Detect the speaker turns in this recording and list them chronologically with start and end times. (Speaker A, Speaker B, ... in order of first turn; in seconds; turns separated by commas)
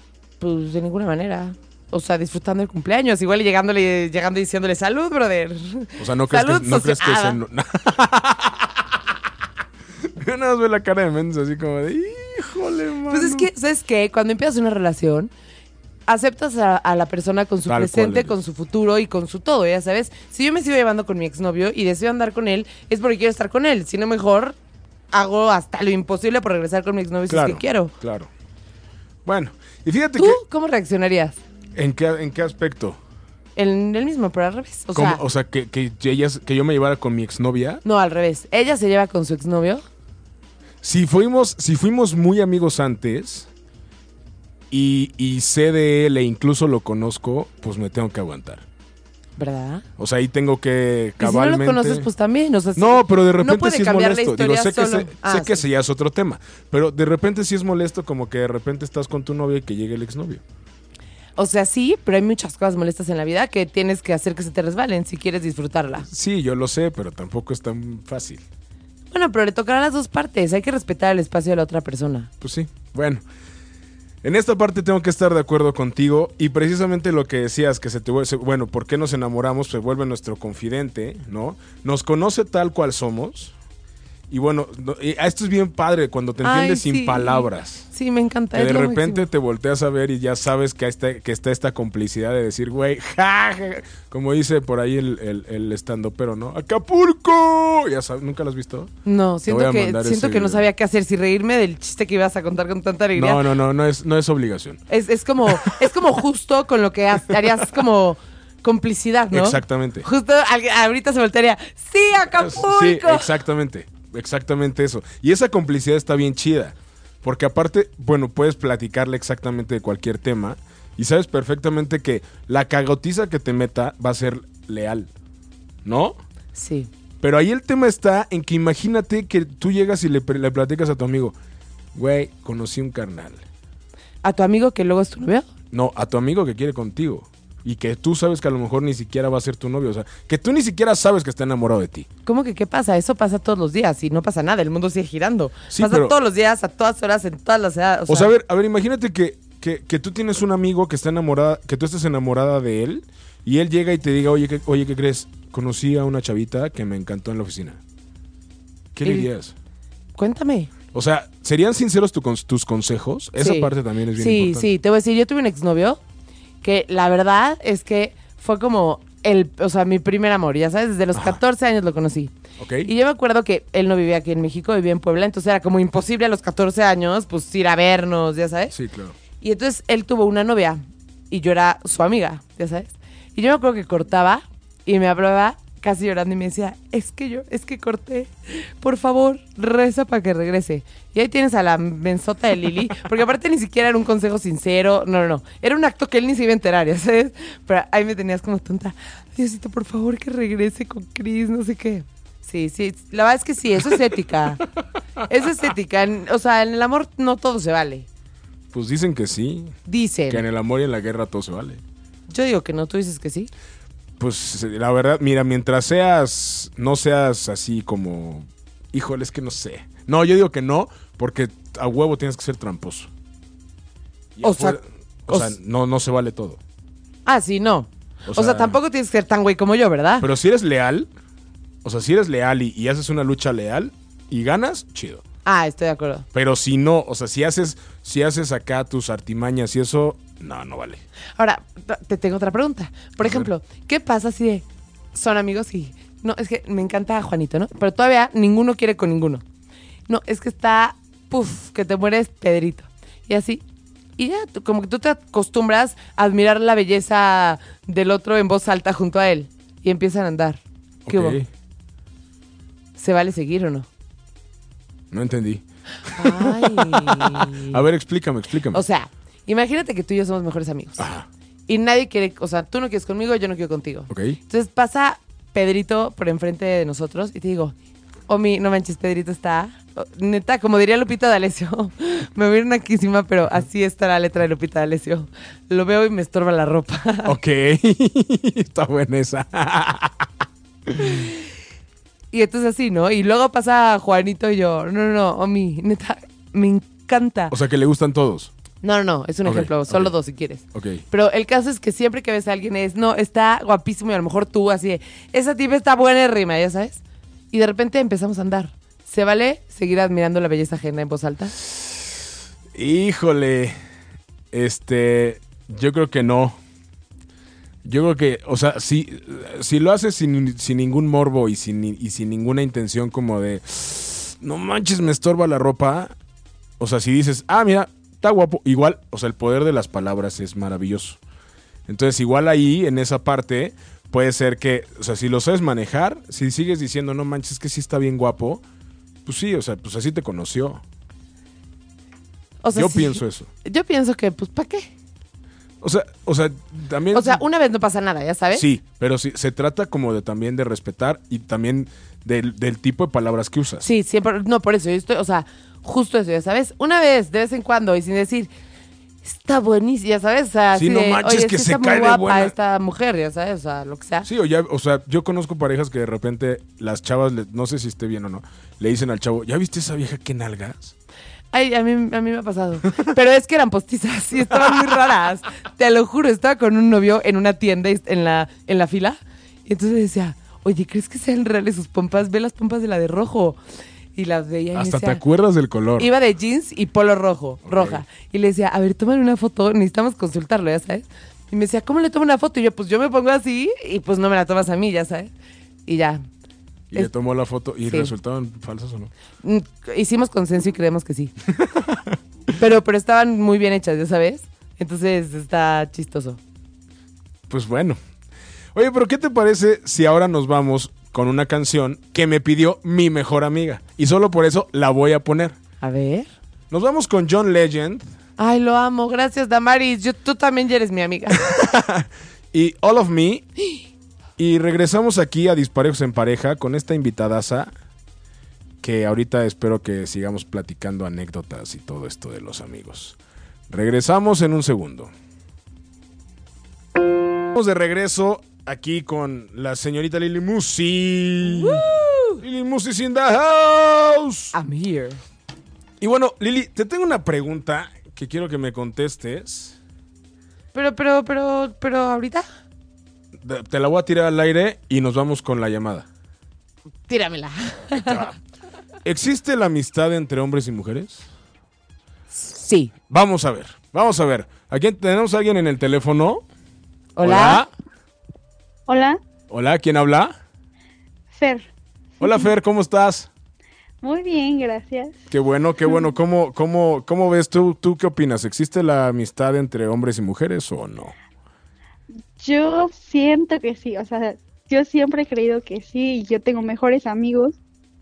Speaker A: 0.4-7.4, Speaker B: 6.0-9.0, Speaker B: 10.0-13.5, Speaker A: 13.1-15.3, Speaker A: 16.1-24.6, Speaker B: 17.7-18.4, Speaker A: 25.1-27.9, Speaker B: 27.3-28.3, Speaker B: 29.2-30.4, Speaker A: 30.2-31.4, Speaker B: 31.8-33.0, Speaker A: 33.6-35.2, Speaker B: 34.9-37.8, Speaker A: 37.8-39.9, Speaker B: 40.8-43.5, Speaker B: 44.7-48.6, Speaker A: 49.4-49.9, Speaker B: 50.0-52.1, Speaker A: 51.2-55.6, Speaker B: 52.8-60.4, Speaker A: 61.4-66.1, Speaker B: 66.0-68.4, Speaker A: 69.1-72.3, Speaker B: 72.4-73.2, Speaker B: 74.2-83.5, Speaker B: 84.3-87.9, Speaker A: 86.4-89.3, Speaker B: 88.5-98.9, Speaker A: 99.0-103.4, Speaker B: 99.5-100.7, Speaker B: 103.2-104.8, Speaker A: 104.9-113.3, Speaker B: 105.5-105.9, Speaker B: 109.3-110.1, Speaker B: 112.3-125.1, Speaker B: 125.8-126.2, Speaker A: 126.5-126.9, Speaker B: 127.2-131.3, Speaker B: 131.9-133.4, Speaker A: 134.2-135.5, Speaker B: 135.7-142.1, Speaker A: 142.3-148.3, Speaker B: 145.7-146.2, Speaker B: 148.1-157.8, Speaker B: 158.9-159.5, Speaker A: 159.0-159.3, Speaker A: 160.2-160.7, Speaker B: 160.9-164.7, Speaker A: 163.4-166.0, Speaker A: 166.6-172.3, Speaker B: 171.1-171.4, Speaker B: 172.6-172.9, Speaker A: 172.8-178.7, Speaker B: 178.7-179.2, Speaker A: 179.4-204.6, Speaker A: 205.3-208.1, Speaker B: 208.7-209.8, Speaker A: 209.9-210.4, Speaker B: 210.3-211.8, Speaker A: 212.3-213.5, Speaker B: 214.2-223.1, Speaker B: 224.4-226.6, Speaker A: 224.4-225.5, Speaker A: 227.3-230.3, Speaker B: 228.3-228.8, Speaker B: 230.2-231.1, Speaker B: 231.8-235.2, Speaker A: 235.4-236.3, Speaker B: 236.3-241.0, Speaker A: 241.4-249.4, Speaker B: 243.2-243.5, Speaker A: 250.1-253.6, Speaker A: 254.2-261.4, Speaker B: 261.1-261.5, Speaker A: 263.0-263.9, Speaker B: 265.1-268.8, Speaker A: 266.1-267.8, Speaker A: 268.7-271.1, Speaker B: 271.0-271.3, Speaker A: 271.7-277.8, Speaker B: 274.1-274.4, Speaker A: 278.3-287.4, Speaker B: 287.2-291.3, Speaker A: 291.0-291.3, Speaker A: 292.3-297.6, Speaker B: 297.5-298.5, Speaker A: 298.8-307.0, Speaker B: 299.4-300.1, Speaker B: 300.7-301.0, Speaker A: 307.5-311.6, Speaker B: 311.7-312.2, Speaker B: 312.7-313.8, Speaker B: 314.5-316.6, Speaker B: 317.9-326.1, Speaker B: 326.8-331.2, Speaker B: 331.9-338.6, Speaker B: 339.3-340.8, Speaker A: 342.6-344.9, Speaker B: 342.7-343.5, Speaker B: 345.8-347.4, Speaker A: 347.1-348.6, Speaker B: 348.5-353.9, Speaker A: 353.8-358.5, Speaker A: 359.2-364.3, Speaker B: 360.7-362.5, Speaker B: 364.2-370.9, Speaker A: 371.5-383.6, Speaker A: 384.1-385.2, Speaker B: 384.7-386.1, Speaker A: 386.0-395.3, Speaker B: 387.7-388.0, Speaker A: 395.9-396.2, Speaker B: 396.9-399.1, Speaker A: 397.9-398.1, Speaker A: 399.4-401.3, Speaker B: 401.6-402.2, Speaker A: 402.6-406.4, Speaker B: 407.5-408.0, Speaker B: 408.8-415.6, Speaker A: 415.8-416.3, Speaker B: 416.7-418.0, Speaker A: 418.4-421.4, Speaker B: 421.4-423.5, Speaker B: 424.4-427.7, Speaker B: 428.8-433.2, Speaker B: 433.7-435.1, Speaker B: 437.6-441.9, Speaker A: 441.4-442.4, Speaker B: 442.4-444.6, Speaker A: 444.5-445.2, Speaker B: 446.0-449.8, Speaker A: 450.7-452.4, Speaker B: 453.4-456.1, Speaker A: 457.1-458.2, Speaker B: 457.9-458.4, Speaker B: 459.0-461.3, Speaker A: 462.3-462.9, Speaker B: 463.1-466.4, Speaker A: 467.2-467.6, Speaker B: 467.2-467.7, Speaker C: 468.9-469.2, Speaker B: 469.5-470.4, Speaker C: 471.3-471.7, Speaker B: 472.2-473.3, Speaker C: 474.0-475.2, Speaker B: 475.3-481.1, Speaker C: 482.4-487.6